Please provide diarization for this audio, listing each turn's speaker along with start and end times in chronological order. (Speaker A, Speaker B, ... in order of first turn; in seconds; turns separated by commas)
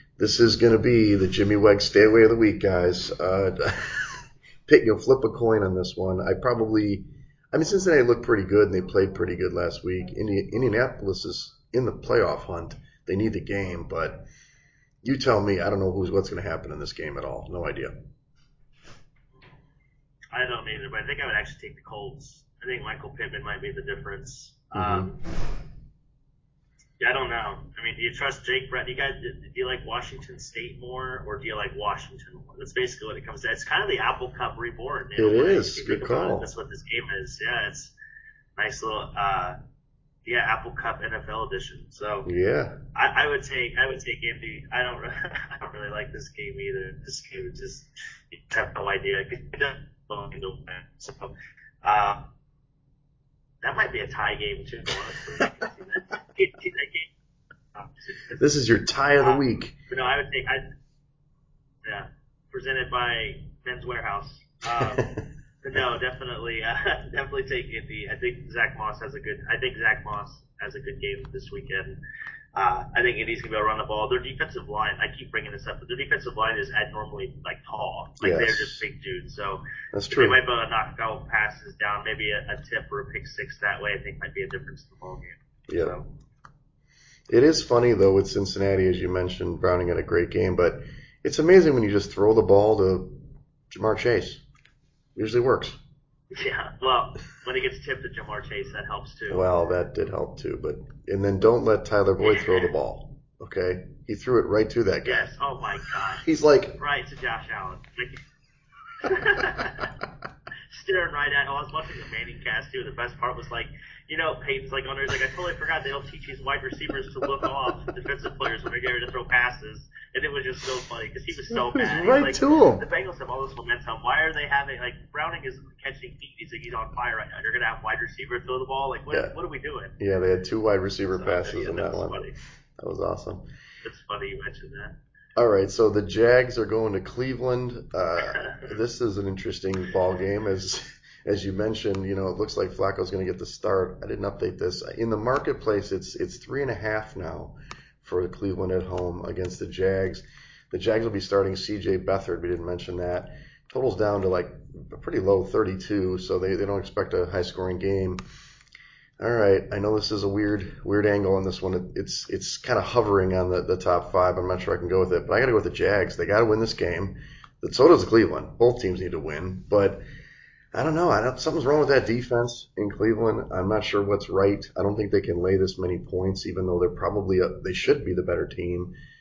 Speaker A: 0.2-14.3, Speaker A: 15.0-17.9, Speaker B: 20.3-25.2, Speaker A: 24.7-25.1, Speaker B: 27.0-37.9, Speaker A: 35.2-36.5, Speaker B: 38.6-39.6, Speaker B: 40.3-42.3, Speaker A: 42.2-42.8, Speaker B: 42.9-51.3, Speaker B: 51.8-52.2, Speaker B: 53.6-57.1, Speaker B: 57.7-58.4, Speaker A: 58.4-59.8, Speaker B: 59.2-60.6, Speaker B: 61.8-72.0, Speaker A: 64.8-65.2, Speaker B: 72.5-86.1, Speaker A: 78.2-78.8, Speaker A: 79.9-80.4, Speaker A: 85.7-86.0, Speaker A: 87.3-94.4, Speaker A: 95.2-95.8, Speaker B: 96.3-99.7, Speaker A: 99.3-105.3, Speaker B: 102.2-102.7, Speaker B: 105.0-106.2, Speaker A: 106.2-106.8, Speaker B: 106.8-108.2, Speaker B: 109.0-109.9, Speaker B: 110.7-129.9, Speaker A: 121.5-122.8, Speaker A: 130.0-132.2, Speaker B: 131.1-132.3, Speaker A: 132.8-133.5, Speaker B: 133.8-135.0, Speaker A: 135.4-158.2, Speaker A: 159.2-170.0, Speaker A: 170.7-178.9